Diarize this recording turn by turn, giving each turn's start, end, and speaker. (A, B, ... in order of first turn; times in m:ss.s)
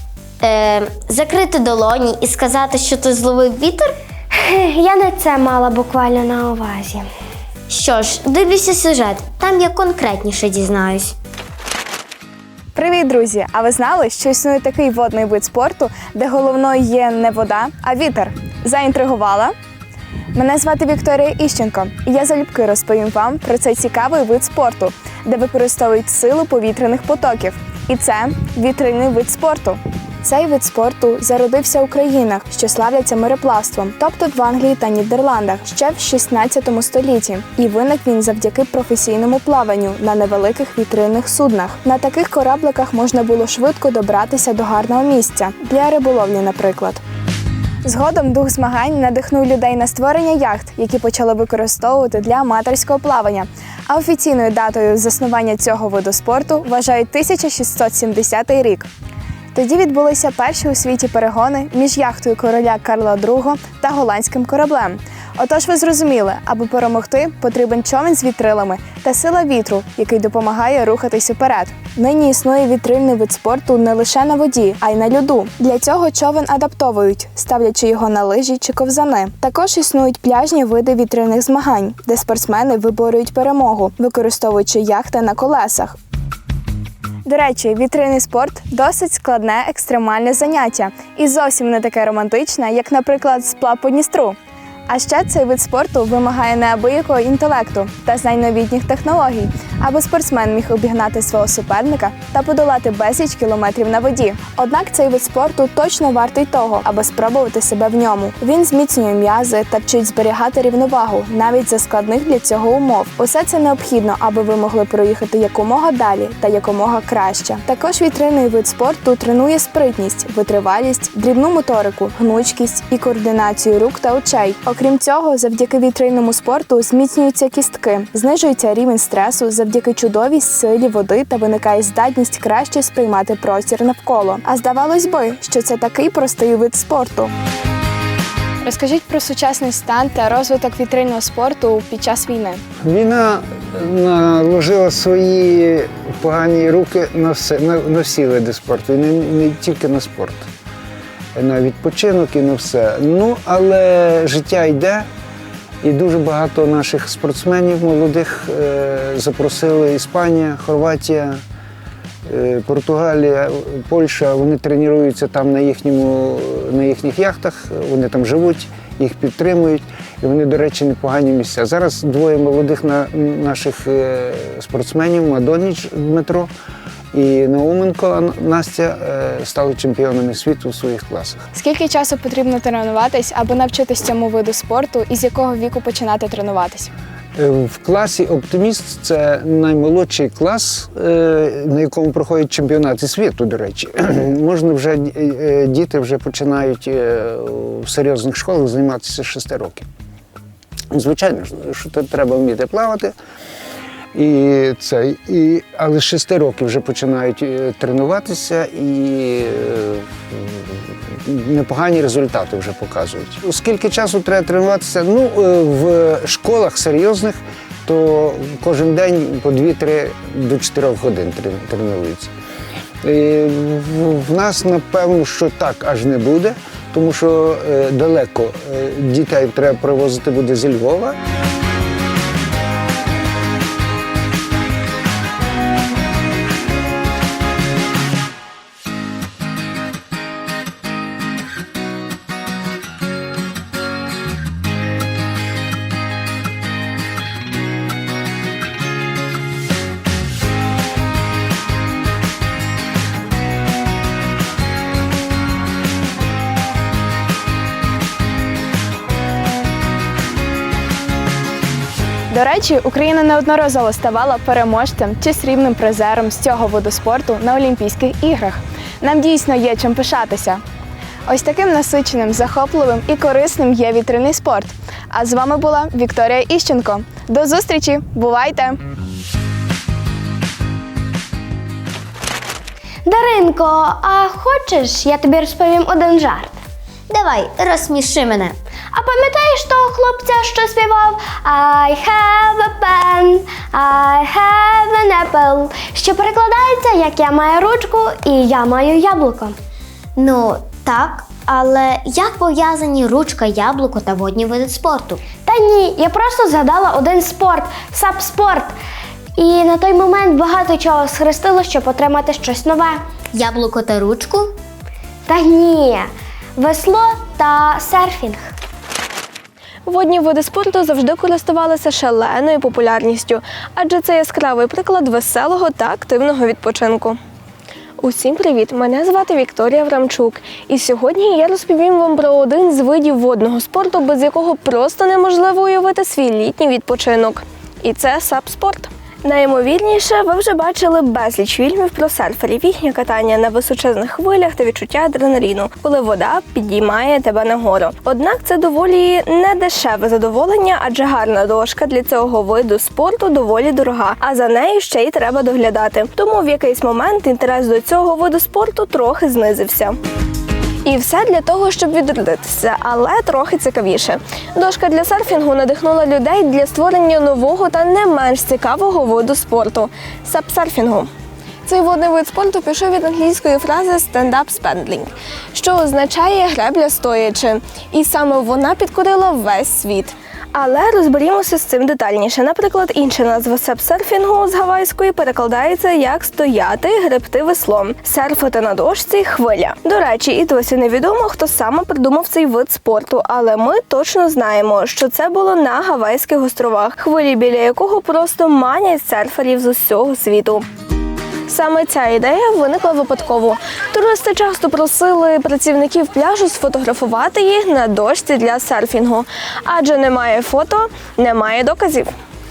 0:00.4-0:03.9 A
0:04.4-0:07.1 B
0:07.7-0:11.2 A
0:12.8-0:19.5 C
0:20.3-0:47.0 C
0:47.8-0:58.9 C
0:59.5-1:26.0 C
1:27.2-1:34.4 C
1:34.9-2:17.3 C
2:18.6-2:22.6 C
2:22.8-2:30.5 D
2:31.4-2:35.1 D
2:35.8-2:41.4 D
2:42.2-2:56.5 D
2:57.1-3:01.4 D
3:01.5-3:06.9 C
3:07.4-3:19.9 D
3:20.9-3:23.1 D
3:24.1-3:42.3 D
3:43.0-3:51.2 D
4:22.3-4:30.6 C
4:31.3-4:38.8 C
4:43.1-4:46.6 B
4:47.1-4:48.6 A
4:48.9-4:59.6 B
5:00.2-5:05.2 A
5:05.4-5:08.8 B
5:09.4-5:13.0 B
5:13.3-5:14.5 A
5:15.3-5:18.5 B
5:19.9-5:27.2 E
5:28.0-6:00.0 E
6:00.8-6:11.1 E
6:11.7-6:40.7 E
6:41.5-6:52.2 E